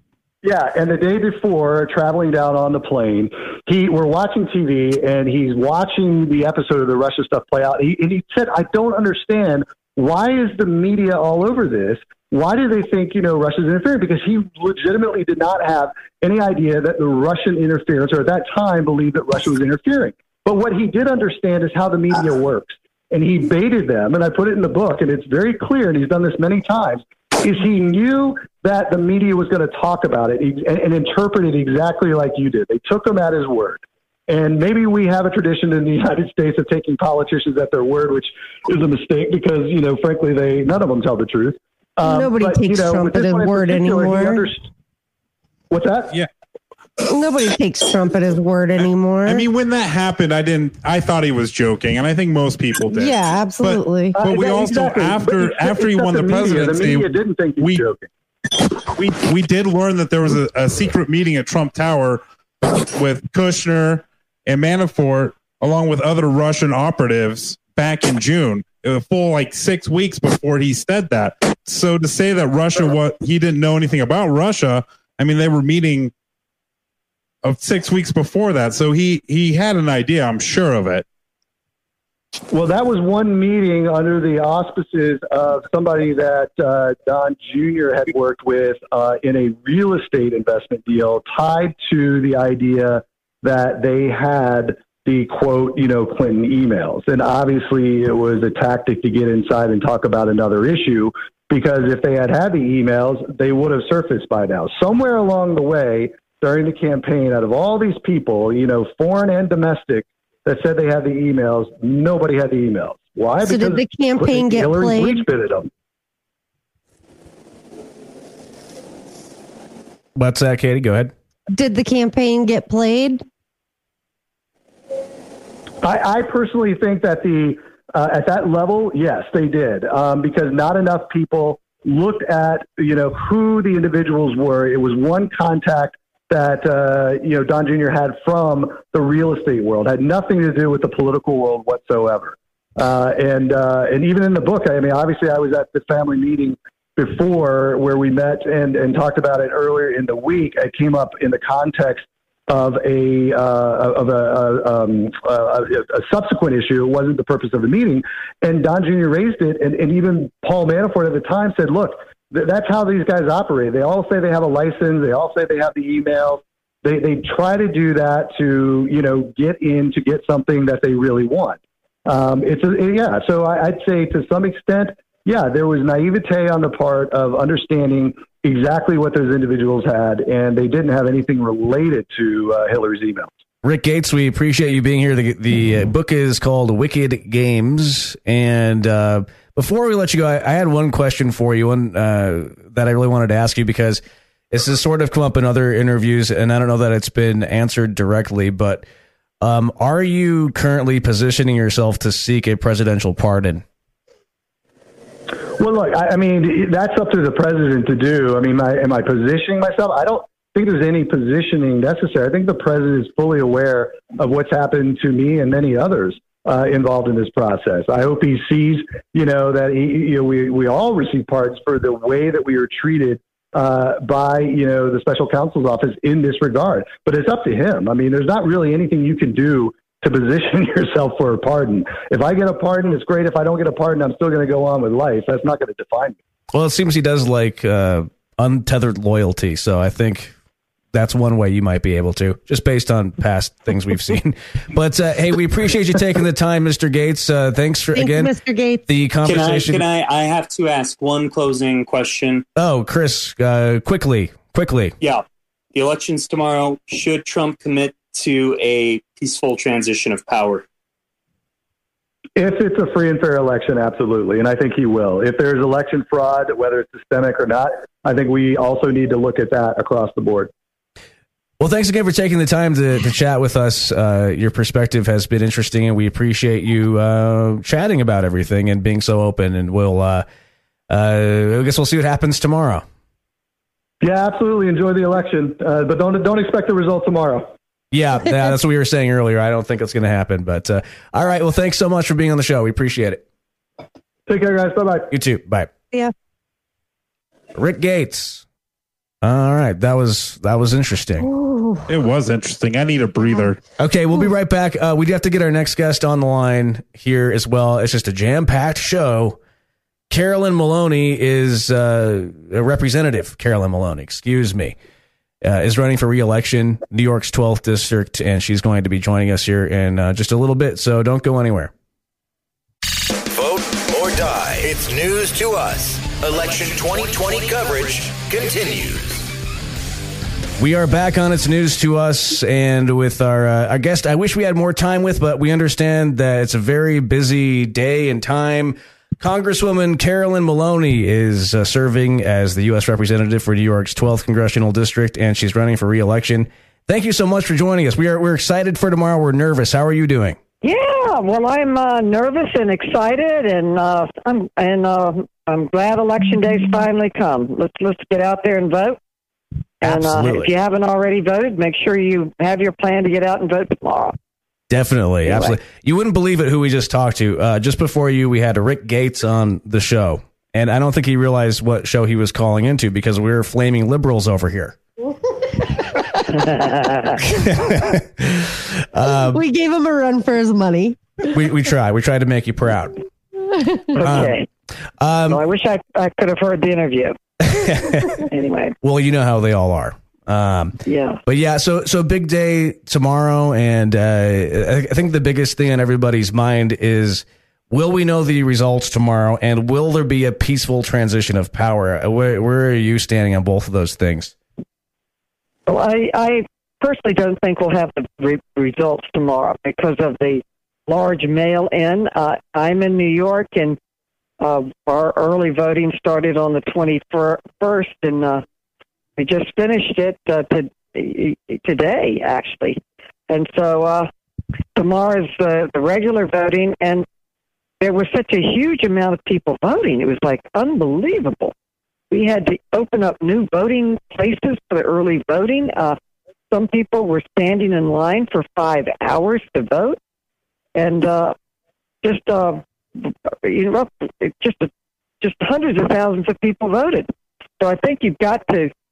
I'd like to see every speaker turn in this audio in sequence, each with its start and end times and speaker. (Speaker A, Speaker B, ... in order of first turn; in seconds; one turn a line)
Speaker A: 0.4-44.7
Speaker B: 42.0-44.5
Speaker A: 45.7-46.2
Speaker B: 47.1-49.5
Speaker C: 48.8-57.8
Speaker B: 52.9-54.2
Speaker A: 54.2-58.1
Speaker C: 58.7-76.1
Speaker C: 77.4-81.0
Speaker A: 82.5-115.7
Speaker B: 113.4-115.2
Speaker D: 120.2-121.1
Speaker B: 121.5-123.2
Speaker A: 125.8-183.3
Speaker D: 183.6-198.8
Speaker D: 199.4-203.6
Speaker A: 205.6-236.2
Speaker D: 236.5-240.3
Speaker D: 240.9-248.3
Speaker B: 247.9-248.8
Speaker D: 248.9-249.8
Speaker E: 249.3-252.4
Speaker D: 252.6-254.9
Speaker E: 255.0-260.6
Speaker A: 262.4-270.5
Speaker D: 271.6-280.2
Speaker D: 280.9-282.9
Speaker A: 284.0-287.5
Speaker D: 287.9-293.2
Speaker A: 294.3-295.1
Speaker D: 295.1-295.7
Speaker D: 297.6-298.4
Speaker D: 299.2-301.3
Speaker B: 301.2-301.9
Speaker C: 301.9-303.6
Speaker D: 303.8-309.4
Speaker D: 310.1-314.8
Speaker D: 315.4-321.7
Speaker F: 323.0-329.3
Speaker D: 330.6-350.4
Speaker G: 350.6-359.0
Speaker D: 359.8-360.5
Speaker G: 359.8-364.2
Speaker D: 364.7-374.8
Speaker G: 365.2-365.6
Speaker B: 375.8-376.1
Speaker G: 376.4-377.2
Speaker D: 377.2-379.4
Speaker B: 379.1-381.2
Speaker D: 381.3-383.0
Speaker B: 383.5-383.9
Speaker G: 383.9-384.5
Speaker D: 384.0-384.4
Speaker D: 385.0-385.4
Speaker G: 385.3-387.2
Speaker D: 387.6-388.2
Speaker G: 388.2-388.8
Speaker D: 388.8-404.3
Speaker G: 390.9-391.2
Speaker G: 405.7-413.8
Speaker G: 414.4-418.4
Speaker G: 419.2-424.1
Speaker G: 424.8-427.1
Speaker G: 427.8-431.5
Speaker G: 432.1-436.0
Speaker G: 436.5-440.0
Speaker G: 440.8-441.4
Speaker G: 442.0-444.7
Speaker G: 445.2-448.7